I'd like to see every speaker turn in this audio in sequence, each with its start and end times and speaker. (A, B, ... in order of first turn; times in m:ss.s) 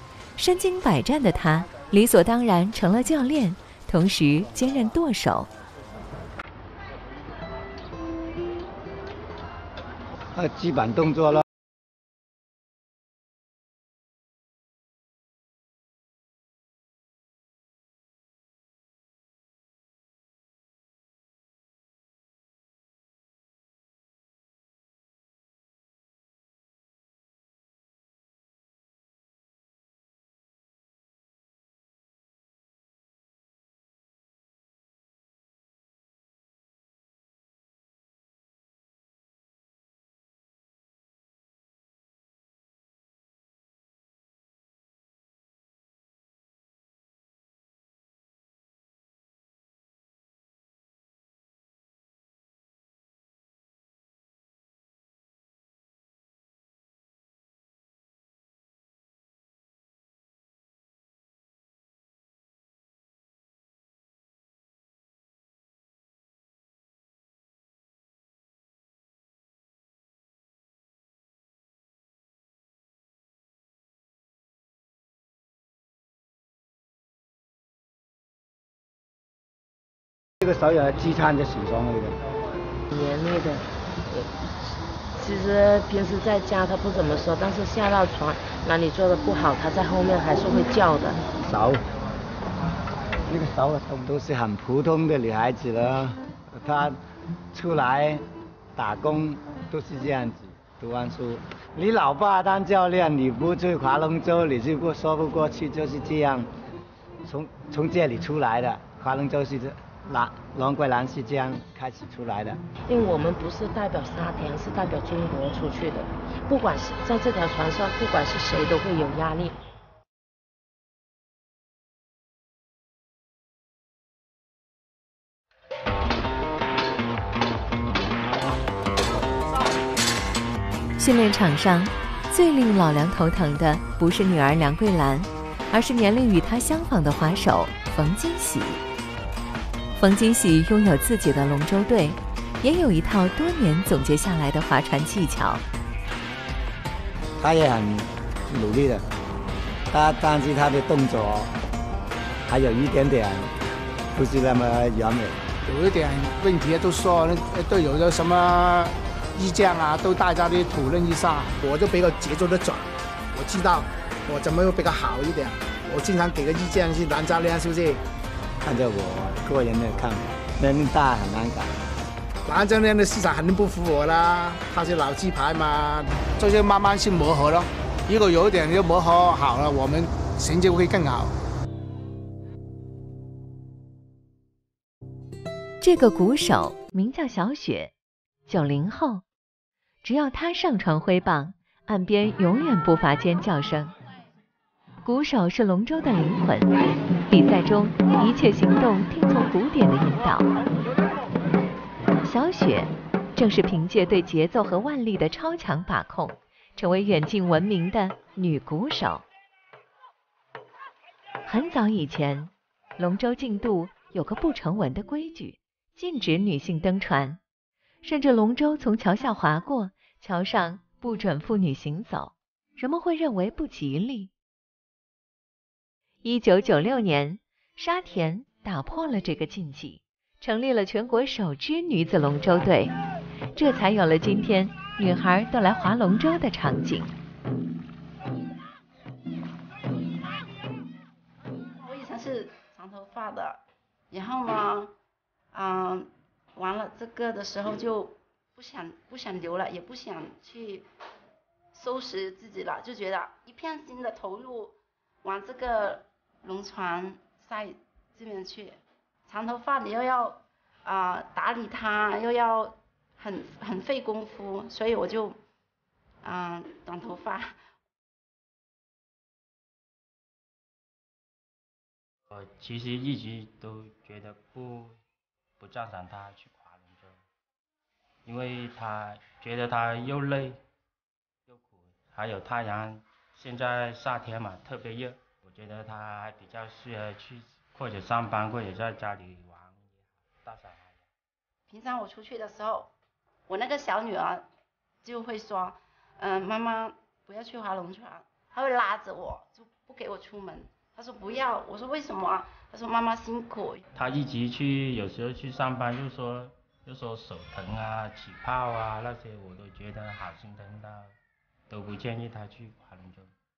0:00.4-0:05.5 A
0:10.4-0:11.4 B
1:20.4-1:22.2 B
1:22.9-1:24.4 C
1:25.2-1:31.2 C
1:31.4-1:31.8 B
1:33.3-1:37.0 B
1:37.5-1:38.2 B
1:38.8-1:46.5 B
1:47.2-1:52.6 B
1:52.9-1:59.6 C
2:11.0-2:18.8 A
2:20.0-2:25.7 A
2:27.4-2:29.1 B
2:29.9-2:31.5 B
2:32.5-2:33.6 B
2:34.1-2:35.4 B
2:35.6-2:48.0 D
2:48.6-2:51.8 B
2:52.5-3:01.4 D
3:05.8-3:07.9 A
3:08.5-3:09.2 A
3:10.0-3:13.9 A
3:15.0-3:16.7 A
3:17.3-3:20.5 A
3:22.2-3:29.2 A
3:31.5-3:37.4 A
3:38.0-3:44.3 A
3:46.2-3:52.9 A
3:53.5-3:57.1 A
4:01.8-4:04.9 E
4:05.5-4:10.9 E
4:11.7-4:25.4 E
4:26.2-4:27.6 E
4:32.3-4:35.0 F
4:35.6-4:37.3 F
4:38.2-4:40.6 F
4:41.5-4:51.1 F
4:51.7-4:52.9 E
4:53.5-4:54.5 E
4:55.0-5:03.8 E
5:03.9-5:11.2 F
5:11.7-5:13.3 F